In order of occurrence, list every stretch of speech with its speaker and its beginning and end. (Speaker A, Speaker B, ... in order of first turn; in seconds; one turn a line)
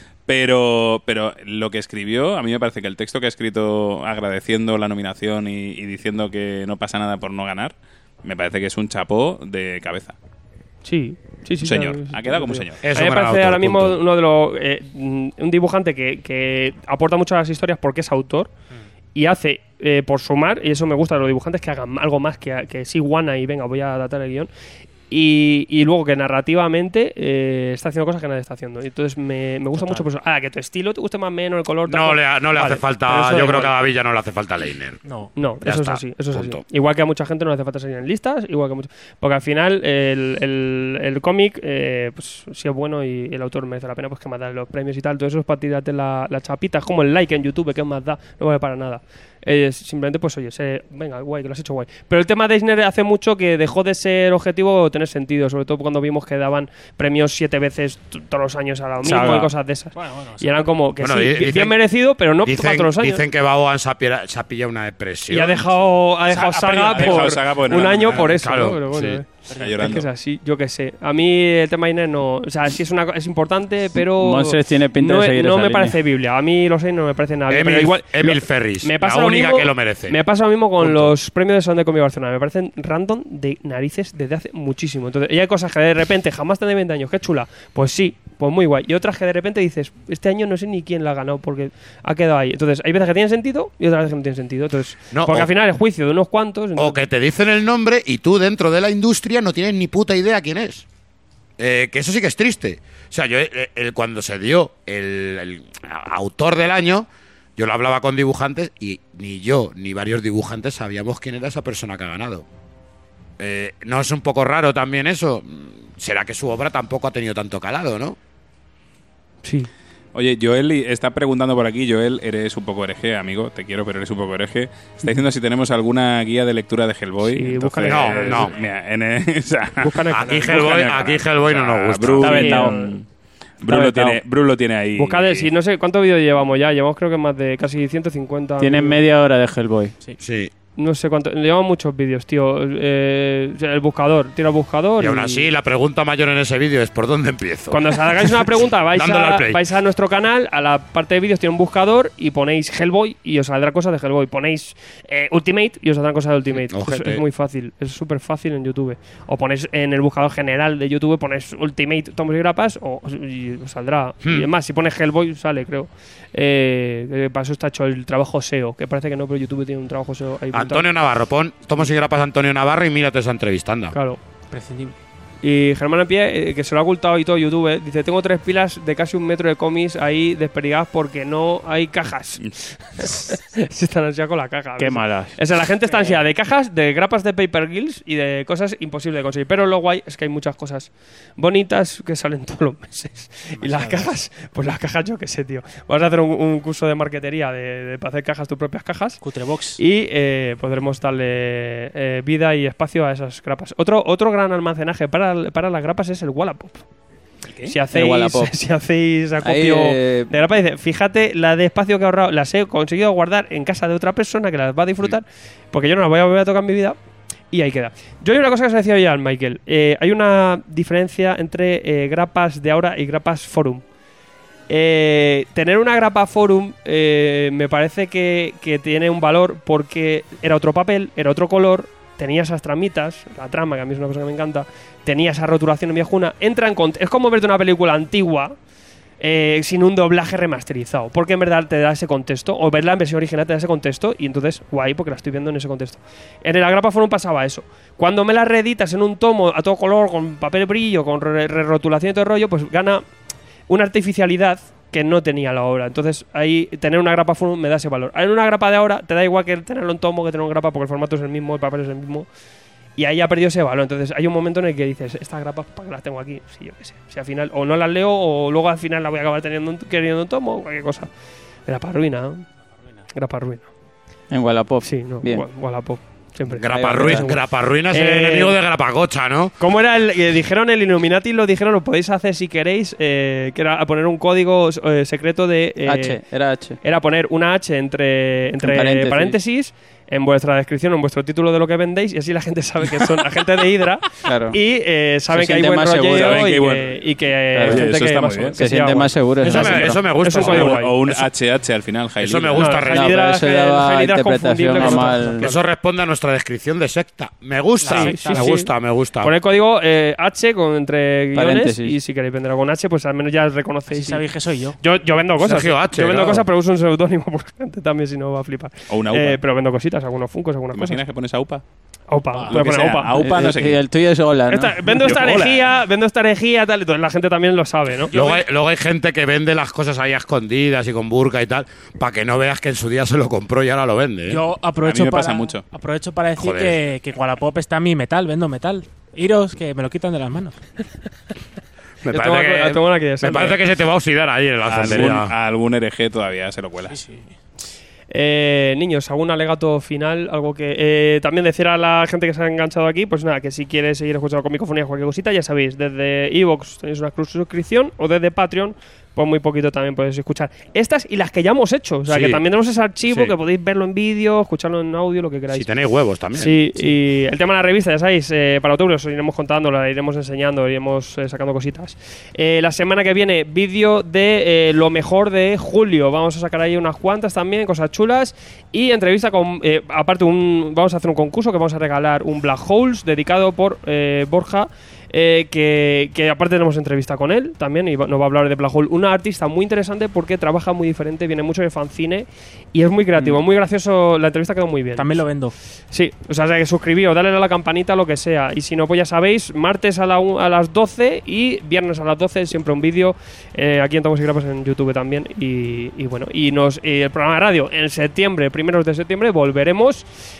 Speaker A: 0.3-10.2
Speaker B: 10.8-18.5
Speaker A: 11.6-12.8
Speaker C: 12.8-14.0
Speaker B: 19.1-24.5
Speaker B: 25.1-33.7
Speaker C: 31.9-35.0
Speaker D: 35.1-35.3
Speaker B: 35.4-63.2
Speaker C: 35.6-36.6
Speaker E: 59.1-59.5
Speaker D: 60.0-60.6
Speaker C: 61.0-61.8
Speaker C: 62.4-65.6
Speaker B: 65.3-97.0
Speaker D: 66.3-68.3
Speaker A: 66.8-68.3
Speaker C: 68.2-69.2
Speaker D: 69.5-69.8
Speaker A: 69.5-70.1
Speaker E: 74.1-76.0
Speaker C: 77.5-80.2
Speaker C: 80.8-81.1
Speaker C: 95.1-95.5
Speaker C: 96.8-100.8
Speaker C: 101.6-112.5
Speaker C: 113.4-118.2
Speaker B: 119.4-119.7
Speaker A: 120.1-133.1
Speaker B: 127.2-128.5
Speaker C: 127.9-128.5
Speaker B: 129.8-130.9
Speaker C: 130.1-132.5
Speaker B: 132.2-132.9
Speaker E: 132.2-132.8
Speaker A: 133.6-135.5
Speaker E: 133.7-134.2
Speaker B: 135.0-139.0
Speaker E: 138.6-139.9
Speaker C: 140.2-140.5
Speaker B: 140.8-145.5
Speaker C: 145.0-149.6
Speaker B: 147.7-170.9
Speaker C: 156.7-157.2
Speaker C: 164.2-164.5
Speaker C: 170.5-174.0
Speaker B: 173.9-174.2
Speaker D: 174.5-174.9
Speaker B: 175.4-199.2
Speaker E: 184.8-185.3
Speaker D: 185.9-186.2
Speaker D: 193.6-194.1
Speaker D: 199.2-199.8
Speaker B: 199.8-206.8
Speaker A: 207.5-207.8
Speaker B: 207.7-217.0
Speaker E: 207.9-208.5
Speaker E: 209.4-210.3
Speaker B: 217.5-223.8
Speaker B: 224.7-238.6
Speaker B: 239.2-253.0
Speaker B: 253.7-262.3
Speaker B: 263.0-271.1
Speaker B: 271.7-272.4
Speaker B: 273.1-273.7
Speaker E: 274.3-275.5
Speaker B: 274.8-278.6
Speaker C: 276.5-279.6
Speaker E: 276.7-277.3
Speaker B: 279.6-286.2
Speaker E: 285.9-286.8
Speaker B: 286.8-301.0
Speaker E: 288.6-289.4
Speaker E: 294.2-294.6
Speaker E: 295.3-296.6
Speaker A: 296.1-296.9
Speaker E: 297.5-297.9
Speaker A: 297.6-298.6
Speaker E: 298.6-300.0
Speaker C: 299.4-301.3
Speaker A: 300.4-302.8
Speaker C: 302.2-303.1
Speaker B: 302.6-305.6
Speaker E: 302.9-305.5
Speaker D: 304.7-305.3
Speaker C: 305.4-309.3
Speaker D: 307.8-308.6
Speaker B: 307.9-314.2
Speaker E: 311.4-312.0
Speaker D: 313.9-314.8
Speaker B: 314.8-321.0
Speaker C: 315.4-316.5
Speaker A: 318.9-319.4
Speaker A: 320.7-321.6
Speaker B: 322.1-323.1
Speaker A: 322.5-323.8
Speaker E: 323.1-324.8
Speaker B: 324.5-328.4
Speaker A: 324.9-325.7
Speaker C: 328.1-334.4
Speaker D: 334.3-340.6
Speaker A: 334.8-335.6
Speaker C: 336.4-336.8
Speaker C: 342.0-345.3
Speaker B: 342.1-343.6
Speaker A: 344.7-347.0
Speaker D: 346.9-347.3
Speaker B: 348.1-365.7
Speaker C: 362.1-362.4
Speaker C: 363.1-363.4
Speaker C: 365.5-366.9
Speaker B: 366.3-395.2
Speaker D: 395.0-395.6
Speaker B: 395.9-410.1